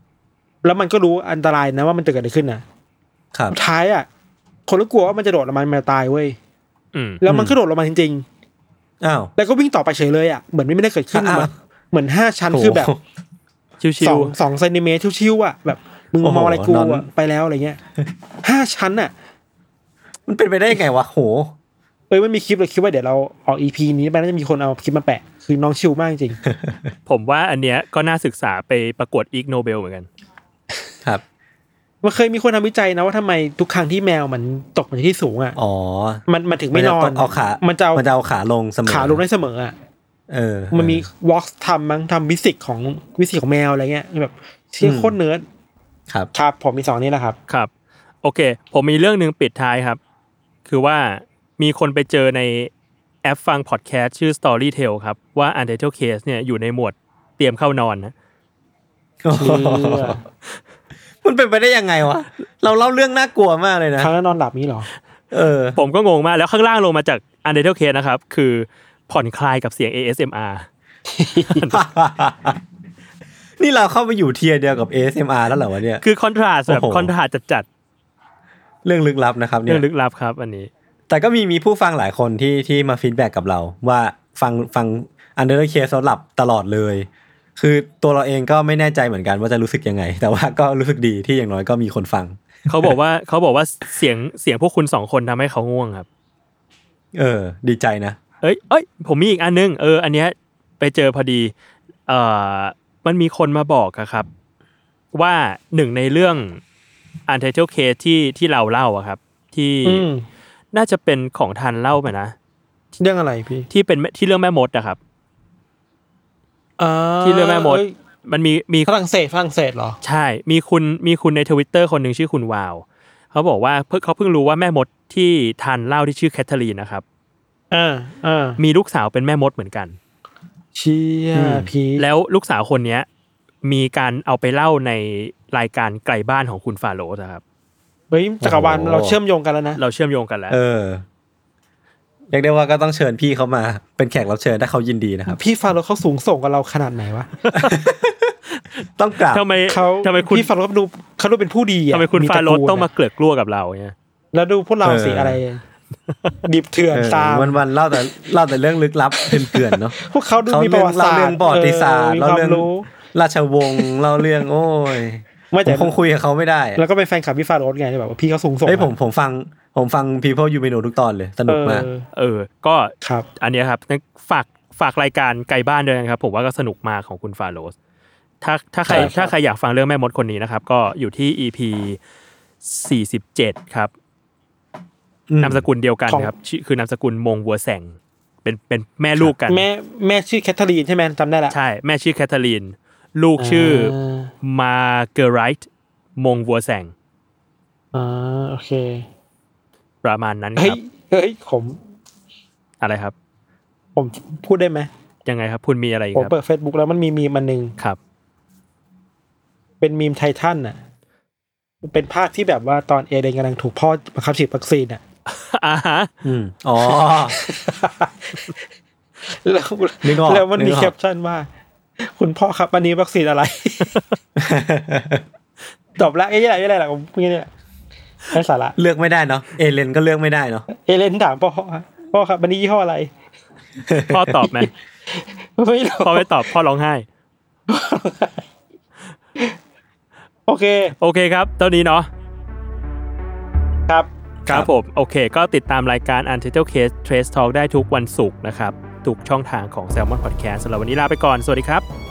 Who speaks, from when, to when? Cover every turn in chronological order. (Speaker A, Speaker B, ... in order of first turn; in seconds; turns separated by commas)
Speaker A: 0.6-2.6, Speaker A: 3.5-4.1, Speaker A: 4.7-6.4, Speaker B: 6.9-7.2, Speaker A: 7.2-8.2, Speaker C: 7.2-7.5, Speaker C: 9.0-9.3, Speaker A: 9.4-12.9, Speaker C: 11.1-11.5, Speaker C: 12.5-13.0, Speaker B: 13.8-14.3, Speaker A: 14.0-17.8, Speaker C: 16.2-17.1, Speaker A: 18.4-19.1, Speaker C: 20.3-21.5, Speaker A: 22.1-26.4, Speaker C: 26.5-26.9, Speaker B: 27.1-30.1, Speaker A: 32.0-35.6, Speaker C: 35.5-39.2, Speaker A: 36.3-38.0, Speaker A: 38.9-39.7, Speaker C: 40.3-41.1, Speaker A: 40.7-45.4, Speaker C: 44.8-45.2, Speaker A: 46.3-47.4, Speaker B: 48.2-50.0, Speaker B: 50.6-52.7, Speaker B: 53.2-58.1, Speaker C: 59.2-60.2, Speaker A: 59.3-60.2, Speaker C: 61.2-64.1, Speaker A: 64.0-64.9, Speaker C: 65.3-65.8, Speaker B: 65.8-70.7, Speaker A: 71.1-71.7, Speaker C: 71.7-72.6, Speaker C: 73.6-76.0, Speaker B: 76.0-77.7, Speaker C: 76.7-77.1, Speaker C: 78.8-79.8, Speaker B: 79.7-80.7, Speaker C: 81.1-92.9, Speaker B: 92.7-96.1, Speaker C: 97.1-98.2, Speaker B: 98.4-101.5, Speaker B: 102.1-104.3, Speaker B: 105.1-106.6, Speaker B: 107.3-110.1, Speaker A: 109.8-110.2, Speaker B: 110.7-112.3, Speaker A: 113.0-113.7, Speaker B: 113.7-115.0, Speaker A: 116.8-117.9, Speaker B: 117.2-118.9, Speaker A: 118.8-120.0, Speaker B: 120.0-127.0, Speaker A: 127.7-128.6, Speaker B: 128.6-130.0, Speaker A: 130.7-132.1, Speaker C: 131.3-131.7, Speaker B: 131.9-133.1, Speaker B: 133.6-137.4, Speaker A: 138.1-139.8, Speaker C: 138.4-139.2, Speaker B: 139.8-140.6, Speaker C: 140.5-141.0, Speaker C: 142.3-145.4, Speaker A: 145.3-147.3, Speaker B: 147.4-147.8, Speaker C: 147.5-148.3, Speaker B: 148.5-150.5, Speaker C: 149.0-149.4, Speaker A: 149.7-152.9, Speaker B: 151.9-153.9, Speaker A: 154.3-155.6, Speaker C: 154.8-155.4, Speaker A: 156.4-157.6, Speaker C: 156.9-166.8, Speaker A: 159.6-162.9, Speaker A: 165.5-165.9, Speaker A: 166.8-168.9, Speaker C: 168.6-171.9, Speaker A: 171.5-172.1, Speaker B: 172.1-177.7, Speaker B: 178.4-182.0, Speaker C: 178.8-179.1, Speaker A: 178.9-179.3, Speaker B: 182.6-183.9, Speaker C: 185.3-185.6, Speaker B: 185.4-189.7, Speaker A: 189.5-191.5, Speaker B: 191.5-196.9, Speaker A: 193.4-194.3, Speaker A: 197.9-199.0, Speaker B: 200.0-200.8, Speaker A: 200.6-201.8, Speaker B: 202.8-203.1, Speaker A: 203.9-204.9, Speaker B: 205.2-206.3, Speaker A: 206.1-207.7, Speaker A: 209.8-210.8, Speaker A: 211.8-215.0, Speaker B: 215.3-216.1, Speaker C: 216.2-217.4, Speaker A: 217.3-218.5, Speaker A: 219.3-221.5, Speaker C: 220.0-220.9, Speaker A: 222.0-223.9, Speaker C: 224.4-225.2, Speaker A: 226.0-227.5, Speaker A: 228.3-228.8, Speaker C: 228.8-230.7, Speaker A: 230.7-233.1, Speaker C: 233.8-234.4, Speaker B: 234.1-234.7, Speaker A: 234.6-236.4, Speaker B: 236.0-237.1, Speaker A: 237.7-238.4, Speaker A: 240.5-240.9, Speaker B: 241.0-242.1, Speaker A: 243.9-244.6, Speaker B: 244.5-251.8